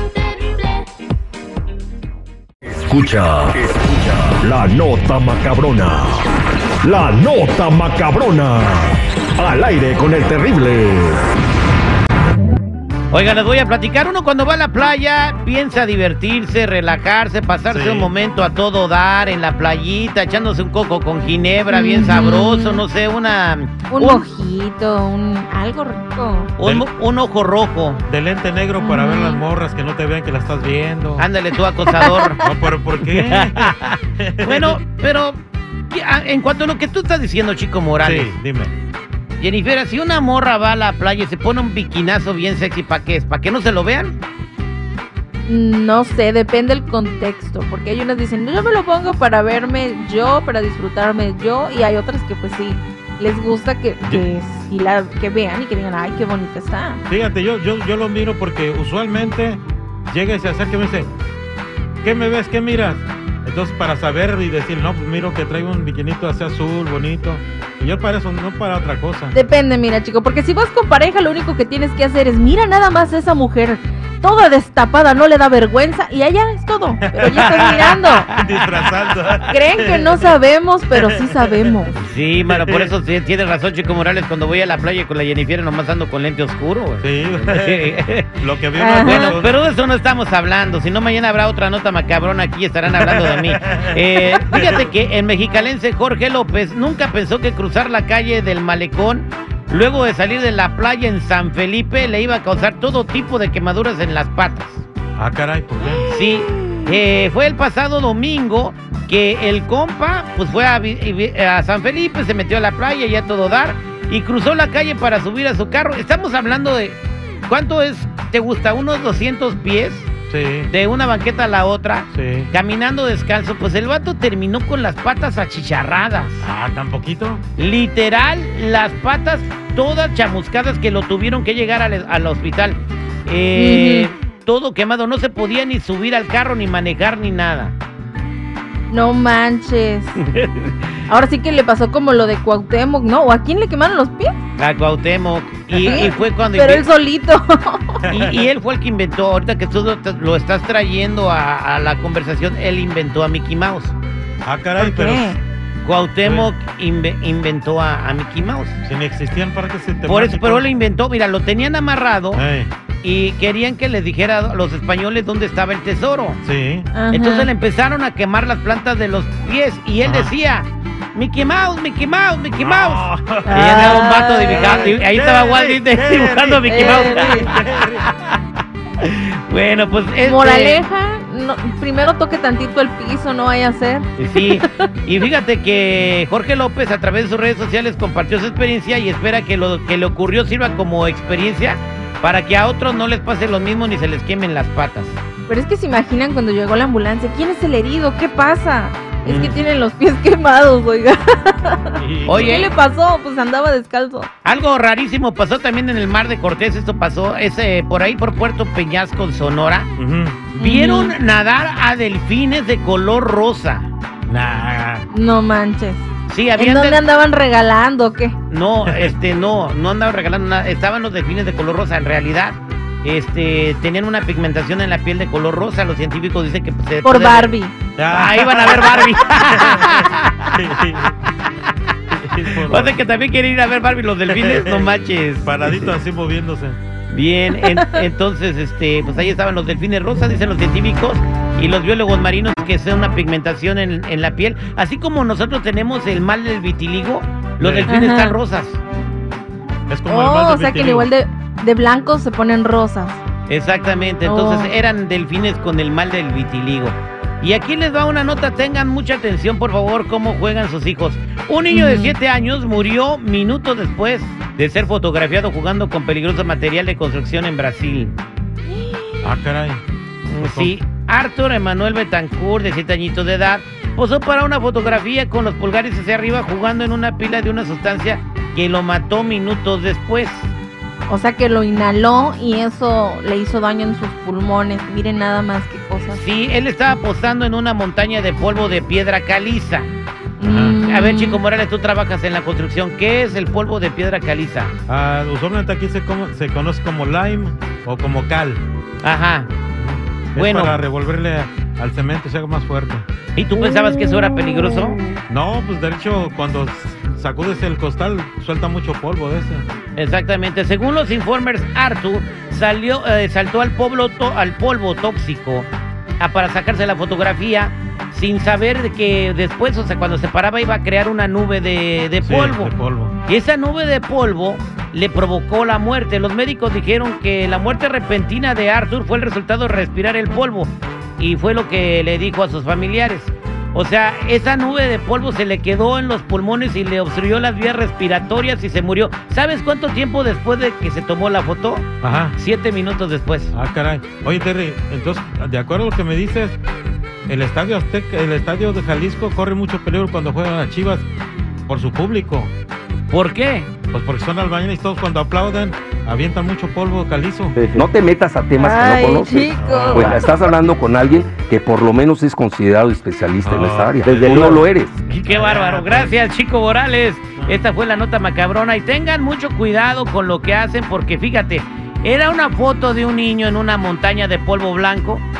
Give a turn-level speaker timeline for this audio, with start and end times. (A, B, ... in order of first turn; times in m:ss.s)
0:02.7-0:06.2 A
0:06.8-0:11.2 A
0:13.1-0:24.2 B
0:17.7-0:18.1 C
0:21.7-0:22.8 D
0:23.9-0:26.5 D
0:26.6-0:28.0 B
0:26.6-0:26.9 C
0:28.0-0:31.3 C
0:28.8-0:29.4 D
0:31.2-0:32.4 B
0:31.9-0:32.4 D
0:32.4-0:34.8 C
0:33.1-0:38.4 B
0:38.0-0:38.7 C
0:39.4-0:44.2 B
0:45.4-0:57.0 D
0:57.1-1:01.1 C
1:02.0-1:09.3 C
1:09.3-1:18.3 D
1:17.1-1:20.3 C
1:17.2-1:18.0 B
1:19.5-1:22.0 D
1:22.0-1:28.4 B
1:22.4-1:22.9 C
1:27.0-1:29.6 C
1:28.8-1:29.4 D
1:29.0-1:44.8 B
1:32.9-1:34.8 C
1:45.2-1:46.0 C
1:45.8-1:47.0 D
1:46.1-2:00.1 B
2:00.3-2:00.7 C
2:00.7-2:06.5 B
2:02.1-2:02.5 C
2:06.4-2:07.4 C
2:07.6-2:17.7 B
2:13.5-2:14.1 D
2:18.9-2:20.2 D
2:20.3-2:20.9 B
2:21.1-2:24.4 D
2:24.6-2:26.9 B
2:25.8-2:28.0 D
2:28.1-2:33.9 B
2:28.1-2:28.4 C
2:34.4-2:35.4 C
2:34.8-2:35.4 D
2:35.8-2:38.8 B
2:36.2-2:36.5 C
2:38.8-2:40.7 C
2:40.0-2:42.4 B
2:42.3-2:42.7 C
2:43.0-2:46.4 B
2:46.4-2:46.9 C
2:46.9-2:47.5 D
2:47.1-2:58.4 B
2:50.0-2:50.3 C
2:52.6-2:58.0 C
2:53.4-2:54.9 D
2:56.7-2:57.5 D
2:59.0-3:00.8 B
3:00.2-3:04.9 D
3:04.2-3:15.2 B
3:15.5-3:24.3 D
3:19.2-3:19.6 B
3:22.0-3:22.7 C
3:22.3-3:22.7 B
3:24.4-3:29.9 B
3:30.0-3:30.6 C
3:30.6-3:31.2 D
3:30.6-3:33.9 B
3:34.3-3:35.0 C
3:35.1-3:36.0 D
3:36.3-3:37.0 B
3:36.6-3:38.4 D
3:38.5-3:47.6 B
3:38.8-3:39.1 C
3:47.0-3:47.7 D
3:48.0-3:51.2 C
3:48.1-3:50.5 B
3:52.1-3:53.0 C
3:52.6-3:55.9 B
3:54.3-3:54.9 C
3:55.4-3:56.8 C
3:57.1-4:08.8 B
3:57.6-3:58.0 D
4:07.6-4:07.9 C
4:07.8-4:08.4 D
4:09.9-4:11.1 C
4:10.1-4:13.2 D
4:13.5-4:28.1 B
4:14.2-4:14.7 D
4:21.7-4:22.1 D
4:28.6-4:29.4 D
4:29.2-4:29.8 C
4:30.3-4:40.5 B
4:30.4-4:30.7 C
4:41.1-4:46.2 D
4:46.1-4:49.9 B
4:50.4-4:51.4 D
4:50.4-4:50.8 C
4:50.8-4:54.7 B
4:54.9-4:58.6 C
4:59.0-4:59.5 B
4:59.8-5:03.0 C
5:00.3-5:00.8 B
5:03.3-5:05.0 B
5:05.3-5:09.7 C
5:10.0-5:15.7 B
5:16.2-5:22.7 B
5:22.2-5:23.1 C
5:23.2-5:43.5 B
5:42.0-5:42.4 C
5:43.5-5:46.6 C
5:47.3-5:51.0 C
5:51.7-5:52.5 C
5:53.1-5:53.7 B
5:53.9-5:57.6 C
5:57.7-6:04.9 E
5:58.6-6:00.3 D
5:59.6-6:00.3 C
6:03.4-6:04.6 C
6:05.1-6:15.2 B
6:05.2-6:06.2 C
6:07.4-6:07.6 C